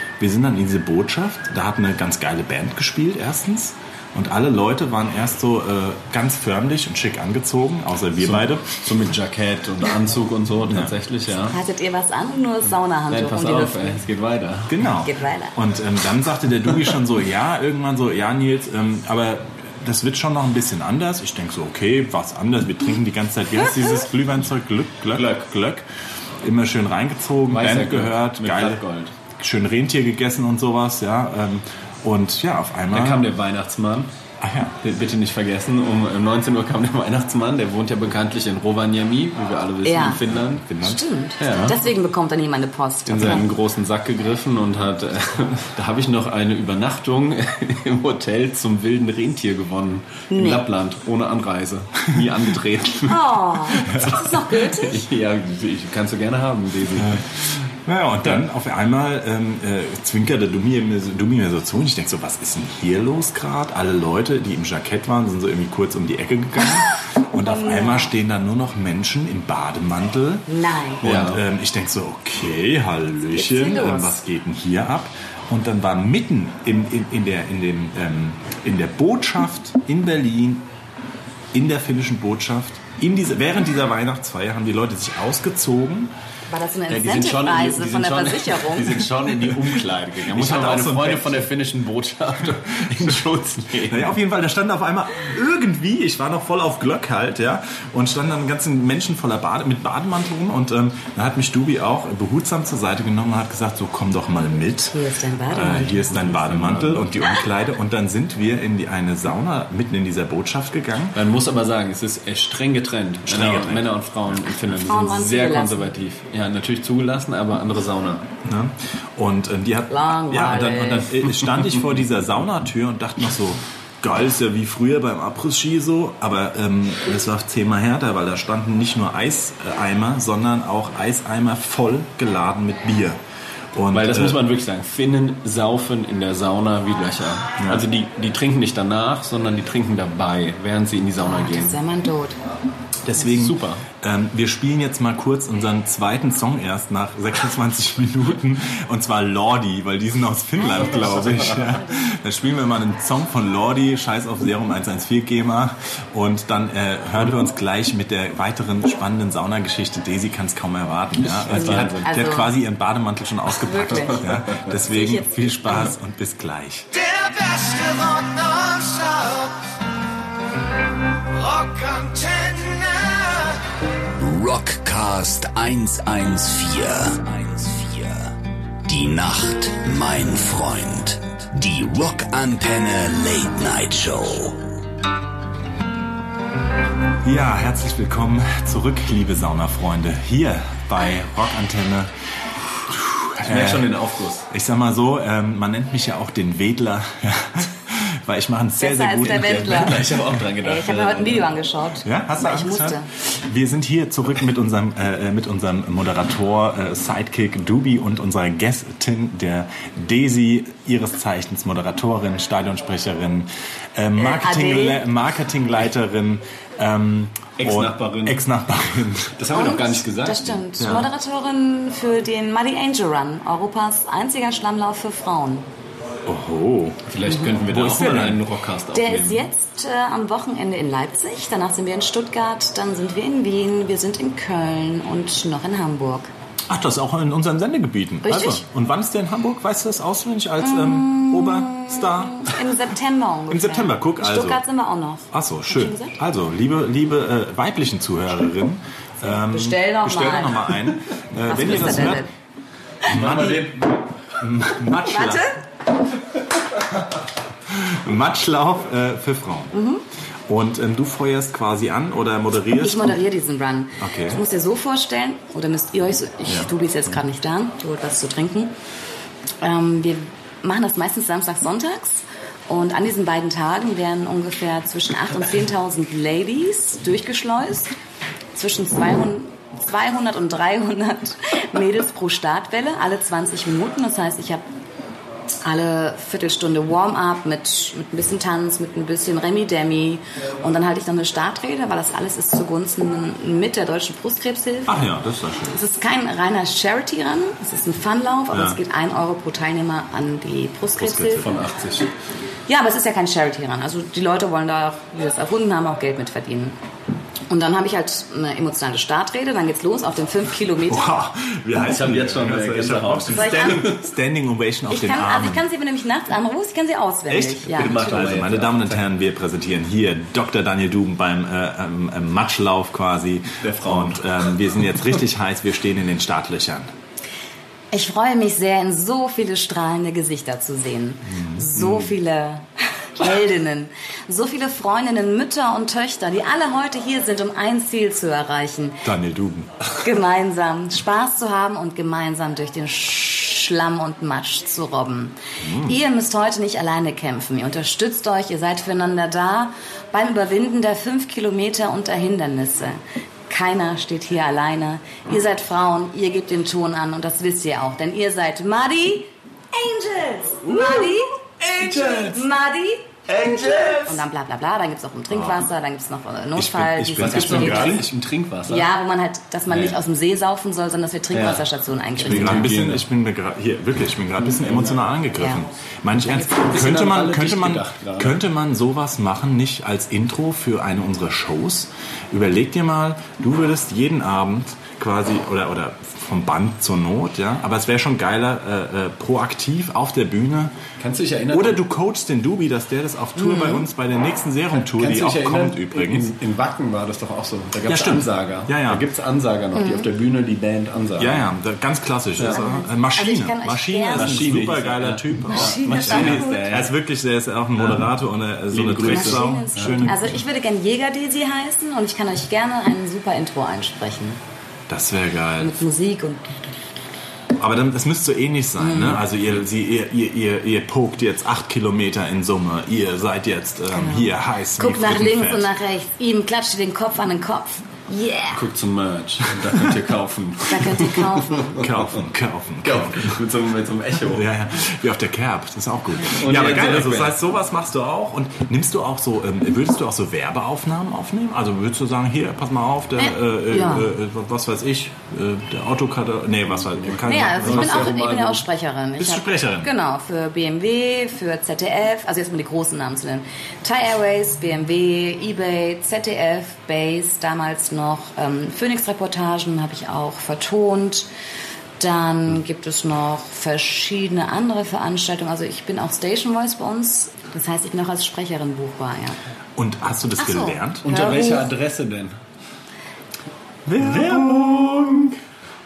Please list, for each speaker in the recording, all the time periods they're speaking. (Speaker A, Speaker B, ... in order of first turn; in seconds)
Speaker A: 0.2-8.8, 10.7-10.9, 14.7-25.9, 26.4-28.8, 29.4-33.3, 34.4-34.8, 40.3-41.0, 57.0-70.5, 71.0-80.7, 81.5-86.1, 90.3-91.5, 93.9-105.0, 105.5-111.2, 113.3-113.9, 114.5-114.8, 118.4-133.2, 133.8-134.4, 137.6-137.8, 143.0-166.9, 187.2-192.1, 192.8-200.3, 202.0-219.5, 220.8-221.1, 226.3-227.1, 227.7-228.4, 236.7-242.6, 243.5-244.6, 245.3-252.3, 253.1-253.8, 254.4-255.5, 257.7-259.7, 260.5-263.2, 264.0-264.4, 294.9-295.8, 298.5-298.8, 301.0-301.6, 310.9-315.6, 317.3-326.9, 331.3-332.1, 339.0-339.7, 345.6-346.0, 365.3-365.7, 366.6-368.1, 372.2-390.8, 391.5-396.3, 397.9-399.1, 401.2-410.4, 414.9-415.8, 417.6-425.7, 431.8-433.4, 434.3-448.2, 449.2-449.9, 469.8-471.1, 473.9-475.2
Speaker B: 8.2-11.6, 13.1-14.8, 25.1-25.5, 27.5-29.1, 32.9-34.1, 34.8-40.7, 41.4-41.8, 43.1-57.3, 71.0-71.4, 86.9-94.1, 106.1-107.2, 111.2-118.3, 133.9-141.8, 143.2-143.8, 150.8-151.7, 161.3-162.2, 164.3-164.6, 193.4-194.5, 199.2-201.6, 217.6-218.4, 219.3-220.6, 227.1-229.4, 251.6-251.9, 253.1-254.0, 301.4-302.1, 311.8-314.0, 317.7-319.1, 323.6-324.4, 360.6-362.5, 363.3-364.2, 367.2-368.9, 369.7-370.0, 371.3-373.1, 374.4-375.2, 376.5-378.4, 391.0-391.8, 394.7-401.5, 404.1-406.9, 407.8-408.1, 408.7-410.1, 428.5-432.3, 432.8-434.5, 436.3-437.4, 447.0-448.6, 471.0-472.3, 474.0-475.4
Speaker C: 11.5-14.0, 15.0-15.6, 39.8-40.2, 40.8-43.5, 50.3-50.7, 53.1-55.0, 67.4-68.1, 70.5-71.0, 73.3-74.2, 86.5-89.1, 104.9-106.4, 114.8-115.9, 119.9-121.2, 141.2-142.4, 151.6-152.0, 161.5-162.5, 163.5-165.9, 198.8-203.1, 214.2-215.0, 219.5-225.7, 227.2-227.6, 228.9-236.3, 238.2-238.6, 240.6-246.2, 249.2-250.7, 251.5-252.3, 255.0-255.6, 259.7-260.0, 262.8-268.7, 269.6-277.9, 278.6-284.6, 285.6-295.0, 295.7-301.5, 302.7-306.8, 307.5-311.2, 313.3-314.0, 314.9-318.4, 327.9-339.1, 340.0-368.0, 368.7-372.7, 376.2-376.7, 393.4-393.9, 399.7-400.1, 402.4-404.5, 405.5-406.7, 409.1-414.4, 415.6-416.6, 418.8-419.2, 423.9-428.6, 430.7-431.7, 443.2-444.1, 447.2-461.3, 462.0-469.4, 470.4-471.7
Speaker D: 166.9-169.6, 171.3-173.6
Speaker E: 174.2-184.7